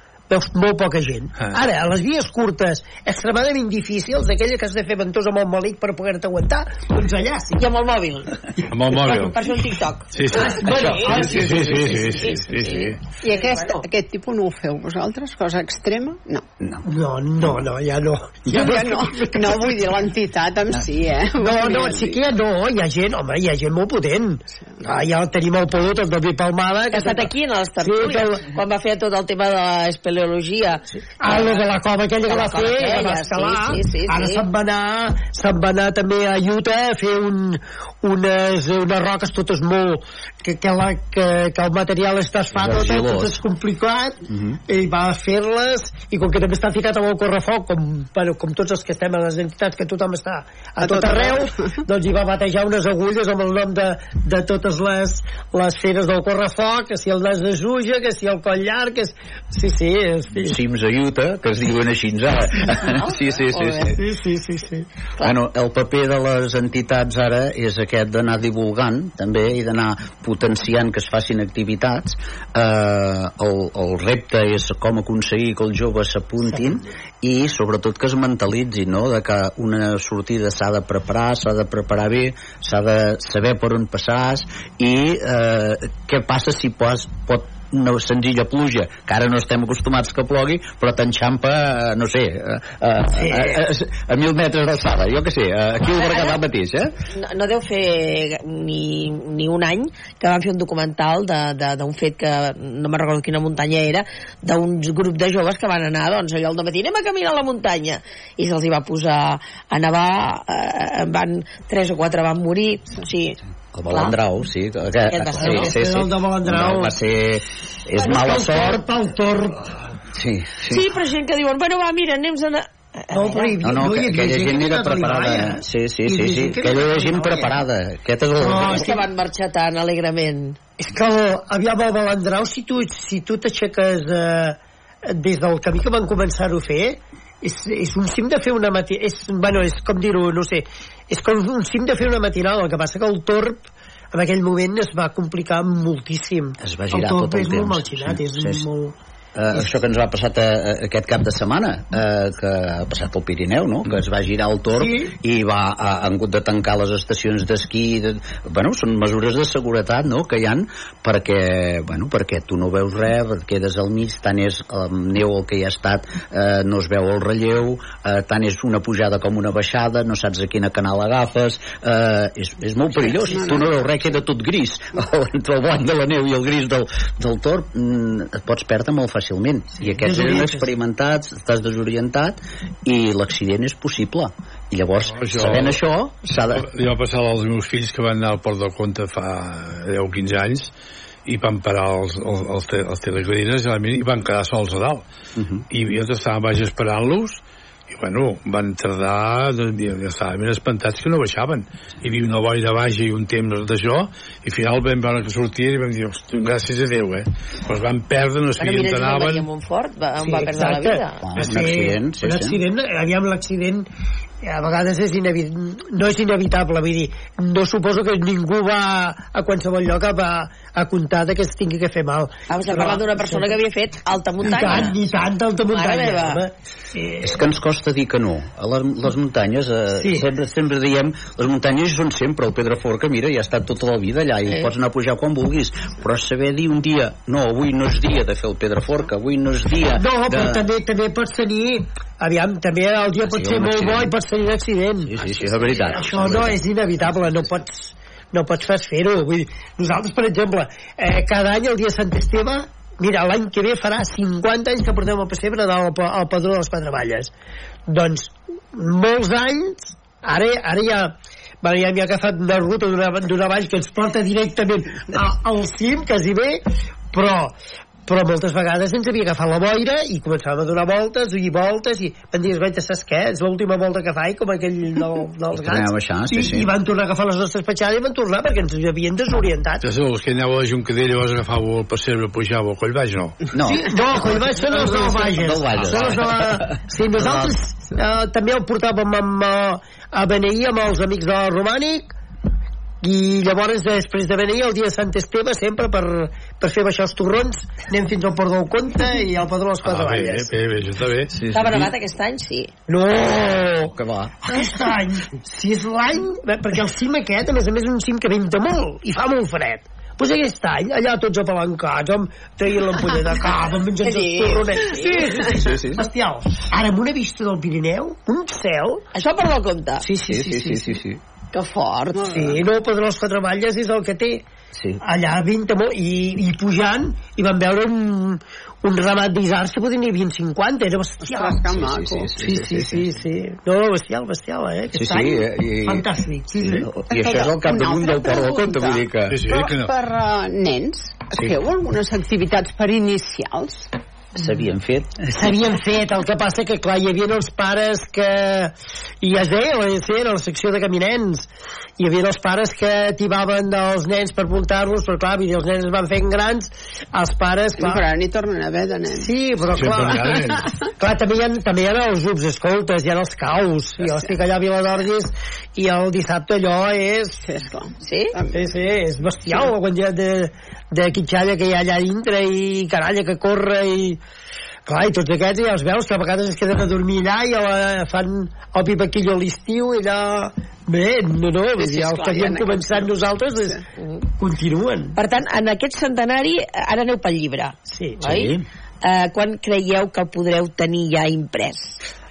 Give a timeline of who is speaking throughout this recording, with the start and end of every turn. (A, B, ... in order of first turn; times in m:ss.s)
0:00.3-0:07.7 A
0:07.6-0:13.8 B
0:08.7-0:09.4 C
0:10.1-0:13.0 C
0:10.3-0:12.3 A
0:13.2-0:16.4 D
0:16.8-0:19.7 A
0:18.5-0:22.2 D
0:21.4-0:28.4 A
0:26.9-0:31.6 B
0:31.2-1:00.6 A
0:32.2-0:34.4 B
0:42.5-0:43.4 E
0:50.8-0:51.4 D
1:00.4-1:04.0 E
1:02.9-1:04.0 B
1:04.0-1:04.8 A
1:05.2-1:36.9 E
1:33.2-1:33.6 A
1:35.9-1:36.4 B
1:37.1-1:54.1 B
1:53.7-1:58.8 E
1:55.0-1:55.8 B
1:55.4-1:57.0 A
1:58.0-1:59.7 A
2:00.1-2:00.8 E
2:00.7-2:03.5 B
2:03.1-2:07.6 A
2:03.6-2:09.0 E
2:08.4-2:09.0 A
2:08.5-2:10.6 B
2:10.8-2:28.9 A
2:26.6-2:28.6 E
2:29.3-3:06.7 E
2:34.7-2:35.1 A
2:52.9-2:53.7 D
2:59.8-3:00.7 A
3:05.2-3:05.8 C
3:06.5-3:10.7 C
3:11.2-3:15.0 C
3:15.4-3:15.6 E
3:15.7-3:29.4 C
3:28.6-3:31.2 B
3:30.2-3:33.9 A
3:31.2-3:32.6 E
3:34.4-3:43.6 A
3:42.5-3:45.0 B
3:44.4-3:47.4 A
3:44.6-3:44.9 E
3:45.7-3:46.4 B
3:47.2-4:00.6 E
3:50.0-3:50.2 A
3:59.9-4:17.3 A
4:03.3-4:04.1 E
4:05.0-4:06.6 E
4:17.9-4:27.5 A
4:28.0-4:39.8 A
4:35.5-4:36.7 E
4:39.8-4:43.4 C
4:43.5-4:47.5 E
4:43.6-4:52.2 A
4:53.0-5:00.5 A
4:59.8-5:01.4 C
5:01.3-5:01.9 E
5:01.5-5:02.7 B
5:02.9-5:19.0 A
5:03.9-5:04.3 E
5:14.0-5:15.0 B
5:15.5-5:16.0 E
5:19.1-5:20.0 B
5:20.0-5:21.0 A
5:20.2-5:21.2 E
5:21.5-5:22.5 B
5:22.1-5:22.6 D
5:22.2-5:24.4 A
5:24.7-5:25.0 E
5:25.0-5:31.7 A
5:31.2-5:32.3 D
5:31.8-5:33.0 E
5:32.4-5:36.9 A
5:34.9-5:36.1 E
5:36.6-5:39.4 E
5:37.1-5:43.9 D
5:39.3-5:39.9 C
5:44.3-5:45.6 E
5:45.3-5:58.0 A
5:57.8-5:59.3 D
5:59.1-6:07.5 A
5:59.7-6:00.7 C
6:04.0-6:04.3 D
6:07.4-6:08.7 D
6:08.0-6:08.3 B
6:08.5-6:14.2 A
6:14.8-6:23.8 A
6:21.8-6:23.0 B
6:22.2-6:23.1 D
6:24.4-6:25.2 A
6:25.1-6:32.0 B
6:27.9-6:28.2 A
6:28.2-6:28.6 E